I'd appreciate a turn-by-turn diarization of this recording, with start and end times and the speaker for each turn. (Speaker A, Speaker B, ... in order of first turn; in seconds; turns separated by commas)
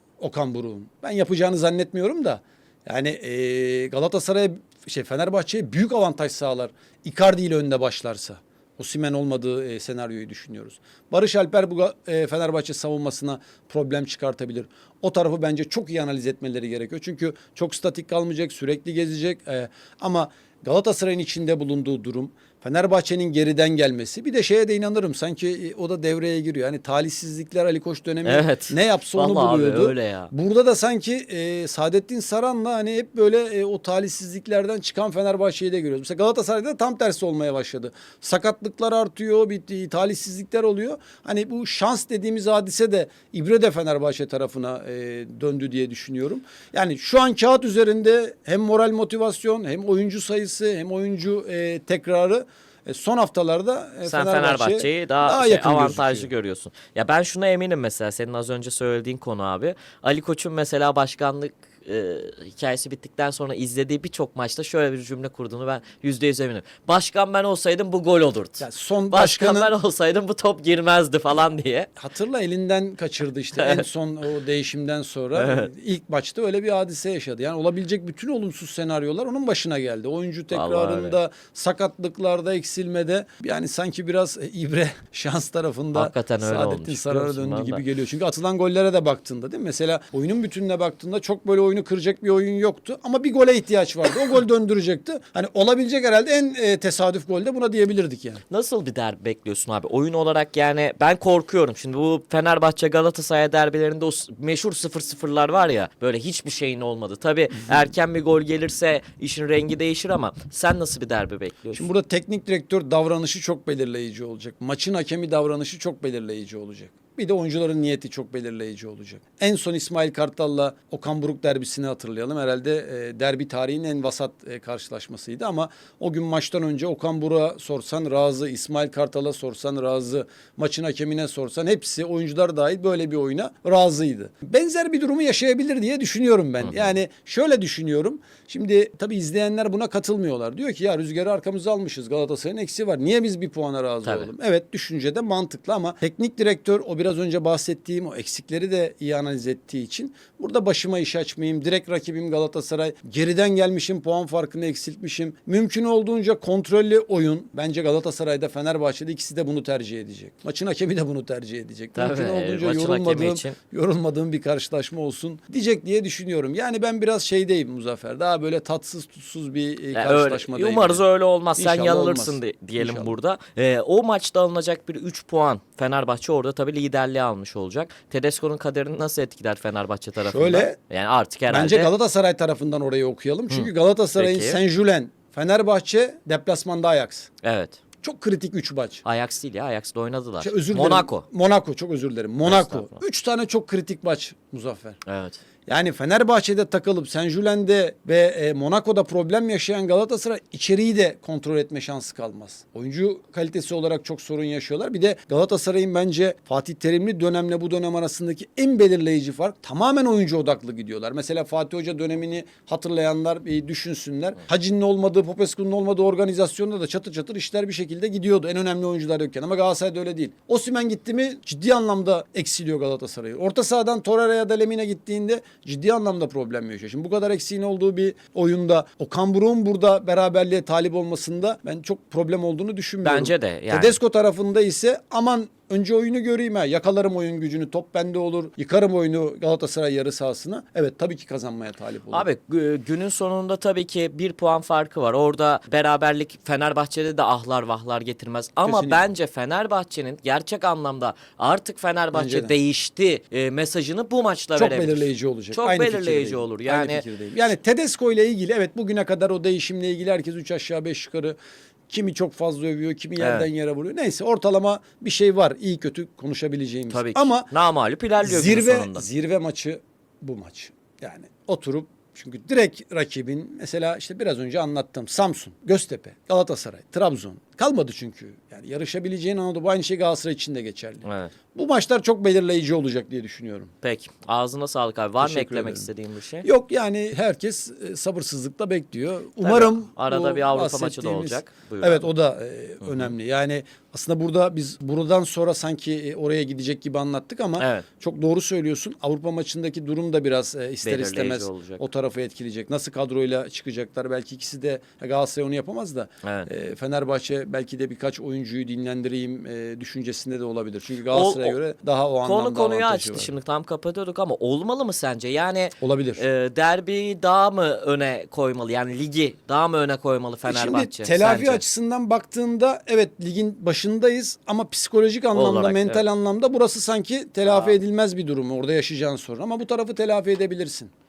Speaker A: 0.2-56.3, Speaker B: 28.2-30.3, Speaker B: 54.0-71.9, Speaker A: 68.6-69.7, Speaker A: 72.0-98.4, Speaker B: 73.5-73.8, Speaker B: 75.3-75.7, Speaker B: 80.5-81.2, Speaker B: 85.9-87.8, Speaker B: 98.5-111.9, Speaker A: 111.7-171.0, Speaker B: 136.6-136.9, Speaker B: 144.0-144.3, Speaker B: 161.9-163.6, Speaker B: 169.9-181.9, Speaker A: 171.6-173.1, Speaker A: 180.2-180.8, Speaker A: 181.5-187.3, Speaker B: 183.5-184.6, Speaker B: 187.4-187.8, Speaker A: 188.0-189.0, Speaker B: 189.0-191.3, Speaker A: 190.4-195.0, Speaker B: 192.4-193.0, Speaker B: 195.1-195.4, Speaker A: 195.7-242.3, Speaker B: 233.0-234.0, Speaker B: 242.1-257.0, Speaker A: 248.7-249.0, Speaker A: 252.1-252.5, Speaker A: 254.6-261.4, Speaker A: 261.9-267.5, Speaker B: 263.2-263.5, Speaker B: 266.9-269.1, Speaker A: 268.2-283.7, Speaker B: 281.0-281.3, Speaker B: 283.8-286.5, Speaker A: 285.2-285.9, Speaker A: 286.4-313.3, Speaker B: 289.4-292.1, Speaker B: 292.8-293.1, Speaker B: 297.6-297.9, Speaker B: 300.8-301.8, Speaker B: 306.2-306.5, Speaker B: 311.1-311.6, Speaker B: 312.3-321.6, Speaker A: 315.8-316.2, Speaker A: 320.4-330.9, Speaker B: 325.3-326.0, Speaker B: 327.5-327.8